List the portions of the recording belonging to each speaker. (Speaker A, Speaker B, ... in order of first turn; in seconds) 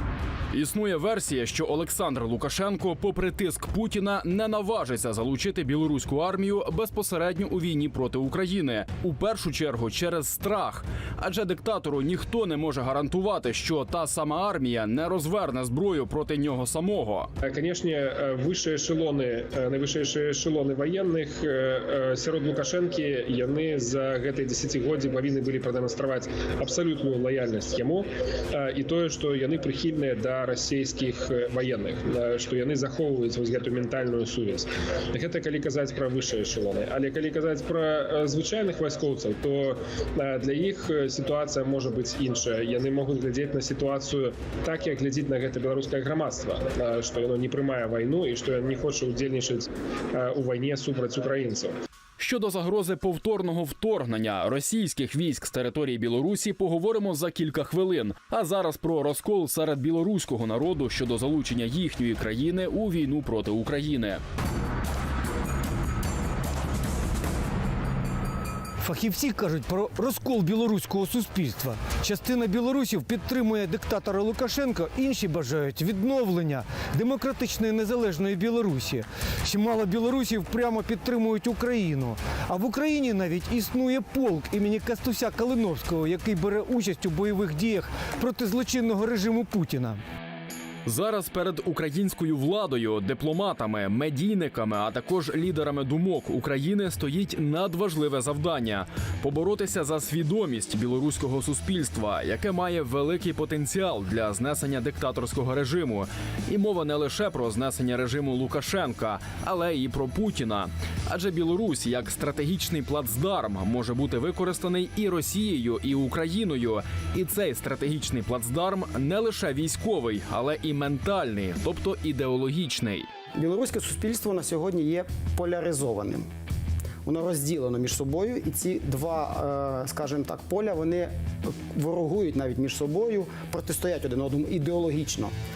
Speaker A: 0.5-17.3, 52.2-64.2, 90.9-123.1
Speaker B: 17.4-51.7
Speaker C: 68.8-90.0
Speaker D: 123.3-126.3, 127.0-135.3